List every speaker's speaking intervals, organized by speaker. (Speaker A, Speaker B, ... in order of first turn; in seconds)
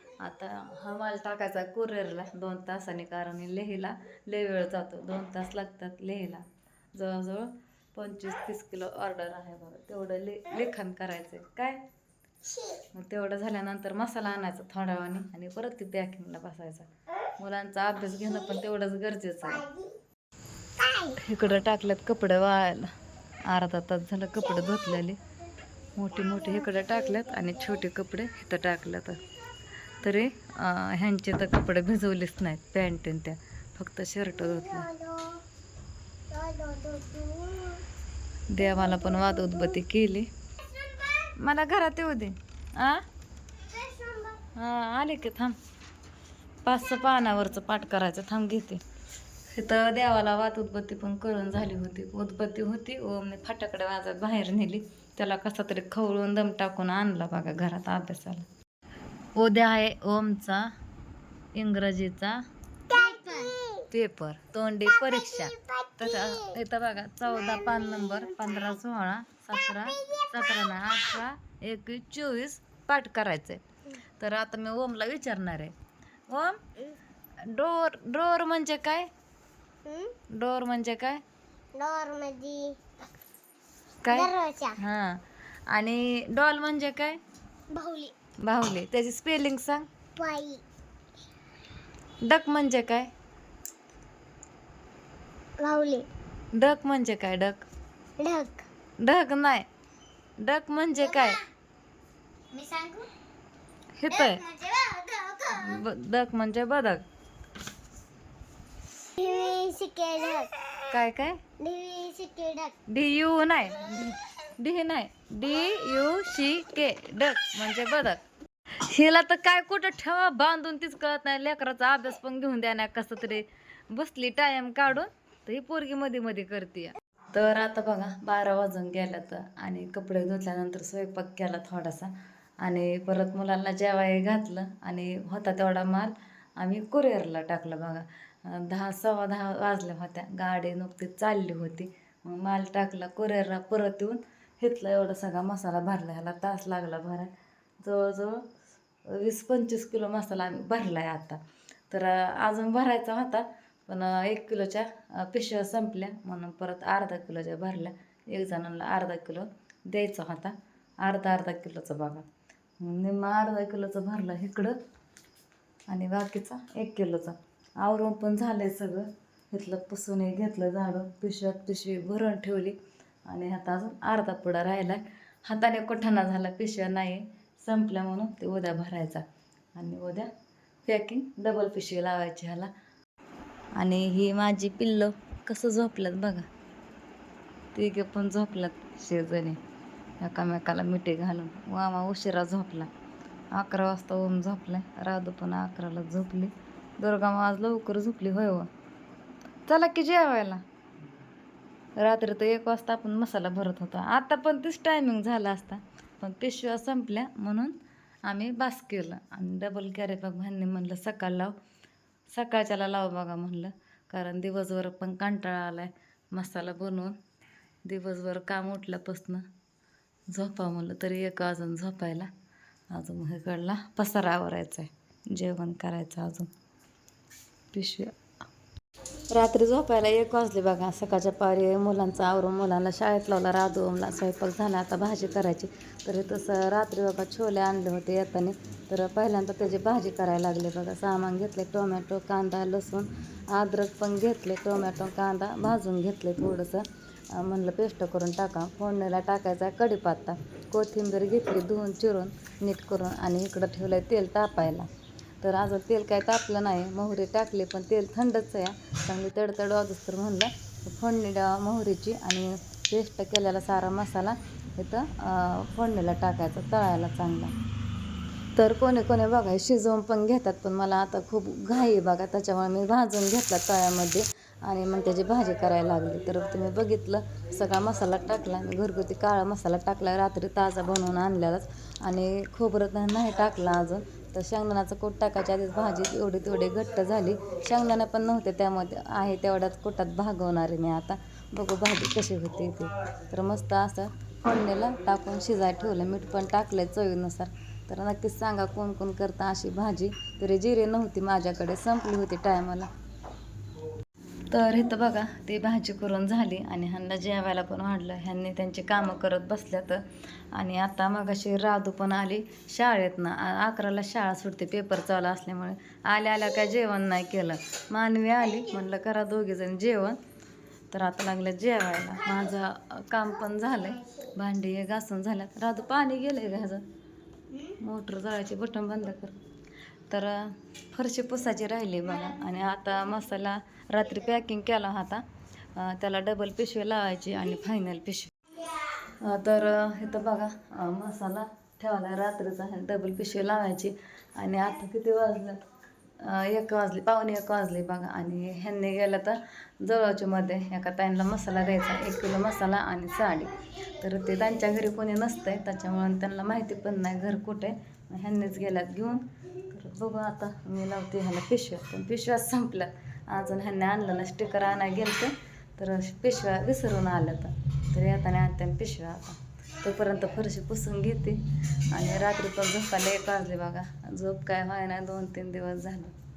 Speaker A: 0.2-11.8, 12.9-19.6, 21.1-22.9, 23.5-25.2, 26.0-29.2, 30.0-34.9, 38.5-40.3, 41.4-43.0, 44.5-45.5, 46.6-48.8, 49.5-58.5, 59.4-60.7, 61.5-62.4, 63.9-73.6, 74.2-75.7, 76.3-76.6, 77.4-79.1, 80.4-81.2, 84.0-87.2, 88.4-89.9, 92.2-93.1, 96.5-97.6, 99.0-99.7, 100.4-101.4, 104.0-104.4, 105.5-107.0, 110.9-111.4, 112.9-118.2, 118.7-132.1, 132.6-147.3, 147.8-148.5, 149.1-151.4, 151.9-162.3, 162.8-164.8, 165.9-172.8, 173.3-180.3, 180.9-182.7, 183.8-186.5, 187.8-189.6, 190.2-192.9, 193.5-198.7, 199.7-200.6, 202.0-211.5, 212.3-217.2, 217.9-219.4, 220.3-222.3, 222.9-226.5, 227.7-228.1, 229.3-254.9, 255.4-267.5, 268.6-302.9, 304.5-320.2, 320.9-326.8, 327.8-329.4, 330.1-335.2, 335.8-345.6, 346.2-376.1
Speaker B: 12.5-12.8, 19.6-20.0, 20.8-21.2, 26.2-27.5, 34.5-35.4, 36.3-37.9, 39.1-39.6, 40.8-41.1, 43.6-44.4, 62.9-63.9, 65.0-66.6, 67.3-68.8, 69.7-70.9, 79.8-80.1, 81.8-82.8, 84.1-84.8, 87.7-88.2, 90.2-90.6, 95.6-96.1, 98.2-98.7, 102.5-103.1, 104.1-105.8, 109.2-110.7, 111.6-112.7, 323.8-324.3